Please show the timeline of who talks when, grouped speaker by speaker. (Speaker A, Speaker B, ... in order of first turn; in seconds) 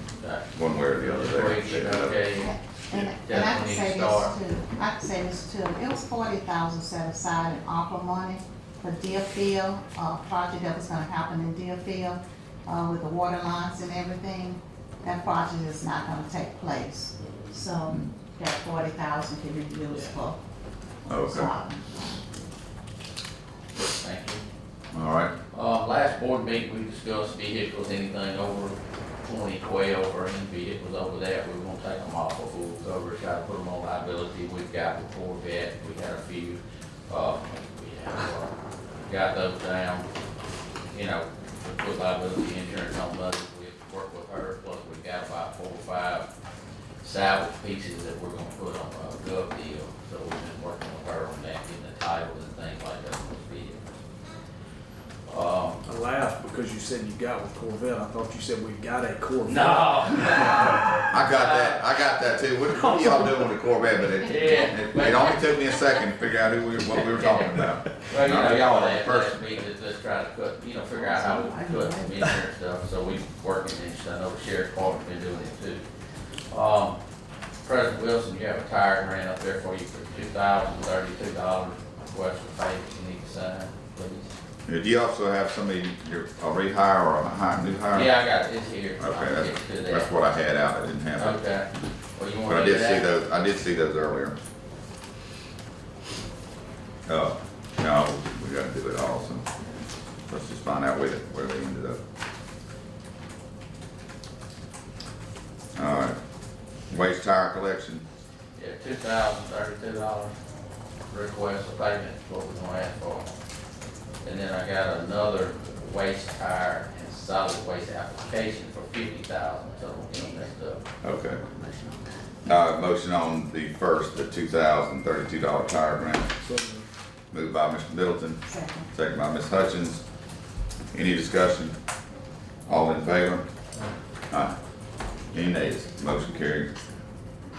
Speaker A: 0.2-0.5, 1.0-4.4, 19.9-20.1, 23.8-24.4, 25.5-40.1, 40.9-46.3, 47.0-54.0, 55.3-55.8, 59.5-61.9, 64.2-65.6, 66.9-75.8, 76.5-77.0, 77.6-84.3, 87.9-90.1, 91.2-93.1, 108.6-110.3, 111.1-113.3, 114.2-120.8
Speaker B: 0.5-2.2, 21.1-21.5, 24.9-25.3, 61.1-69.4, 84.7-88.2, 89.0-91.4, 92.5-94.4, 97.1-99.5, 100.3-102.0, 105.8-106.2, 106.9-108.0, 121.0-121.4, 122.4-126.3, 127.3-130.0, 130.9-131.8, 132.7-133.5, 134.3-134.6, 135.3-136.7
Speaker C: 2.4-20.4, 21.2-21.8, 71.0-72.3, 128.4-128.9
Speaker D: 55.9-60.4, 126.4-126.9